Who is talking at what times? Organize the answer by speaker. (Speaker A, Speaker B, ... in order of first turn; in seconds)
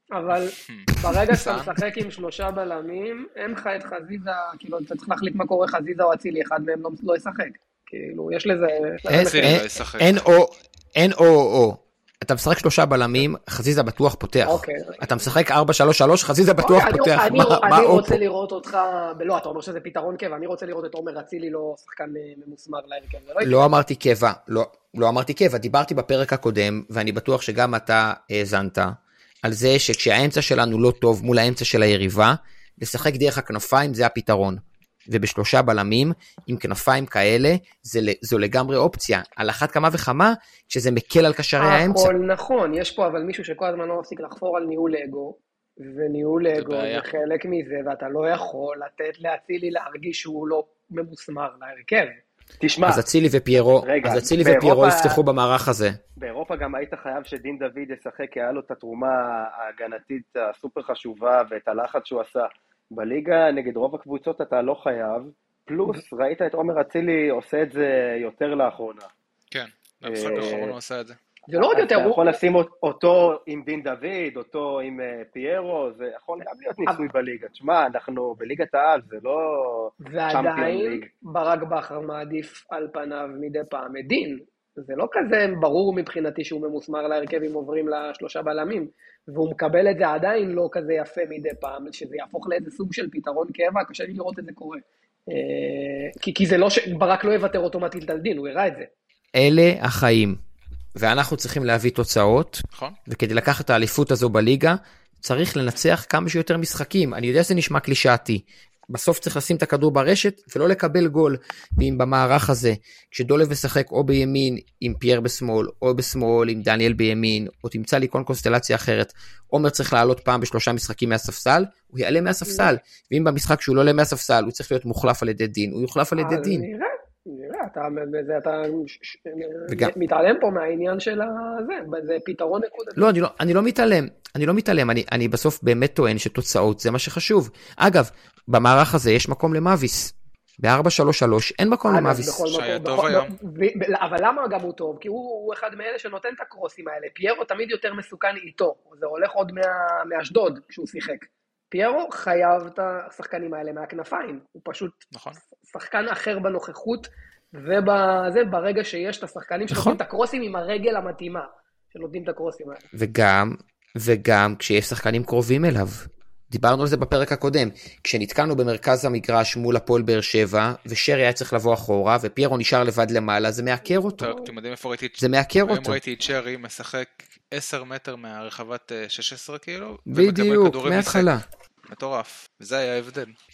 Speaker A: 0.1-9.6, 14.5-15.1, 16.6-23.7, 41.6-52.2, 71.5-72.3, 80.0-98.9, 126.2-133.1, 141.9-155.1, 155.6-162.8, 174.2-174.5
Speaker B: 0.6-1.7, 9.1-10.2, 46.5-47.1, 69.5-71.2, 142.5-143.3, 155.1-155.4, 159.7-160.0, 174.2-181.3, 181.9-183.3
Speaker C: 9.1-18.2, 23.4-42.1, 52.8-56.0, 99.3-100.4, 101.0-126.7, 129.7-129.9, 133.0-142.4, 162.9-174.3, 175.2-176.0, 180.1-181.4
Speaker D: 52.6-53.0, 53.8-55.2, 56.2-69.1, 70.1-70.8, 71.7-81.1